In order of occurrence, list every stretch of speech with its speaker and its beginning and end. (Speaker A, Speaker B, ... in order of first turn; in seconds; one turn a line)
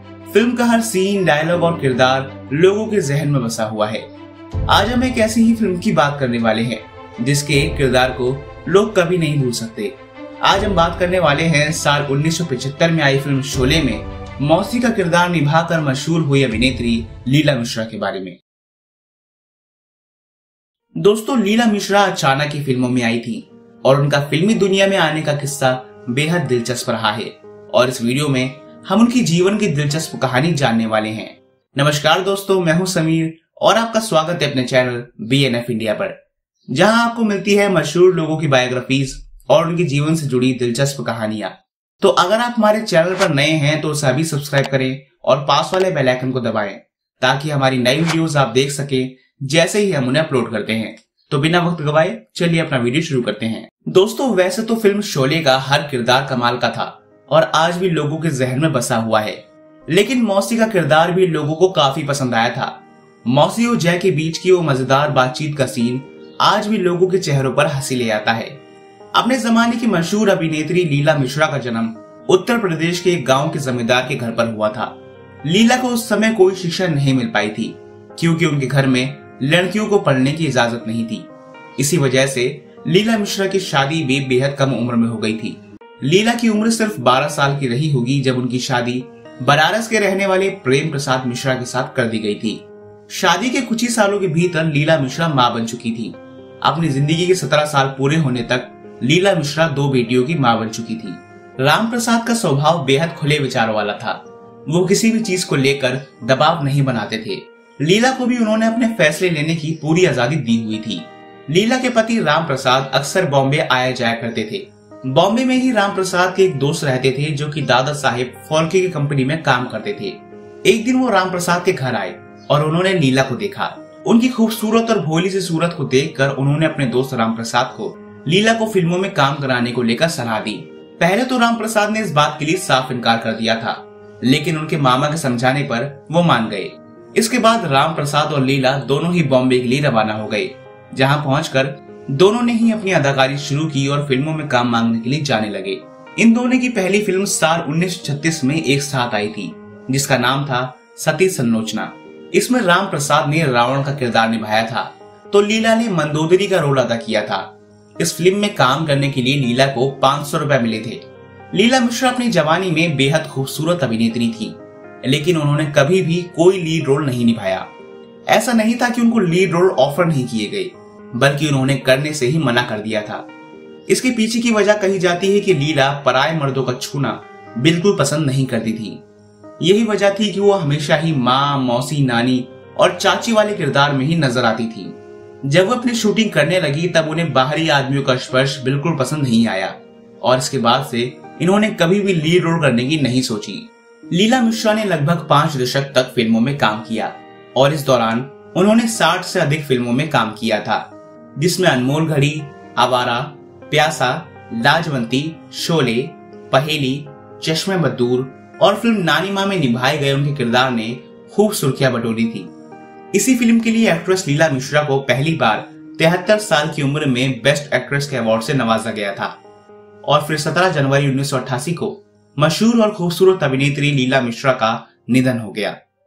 Speaker A: 0.3-4.0
Speaker A: 4.7-18.4
Speaker A: 21.0-36.2
Speaker A: 36.7-68.6
Speaker A: 69.1-167.7
Speaker A: 168.3-173.3
Speaker A: 173.9-179.0
Speaker A: 179.6-200.8
Speaker A: 201.4-212.5
Speaker A: 213.1-219.4
Speaker A: 220.1-225.8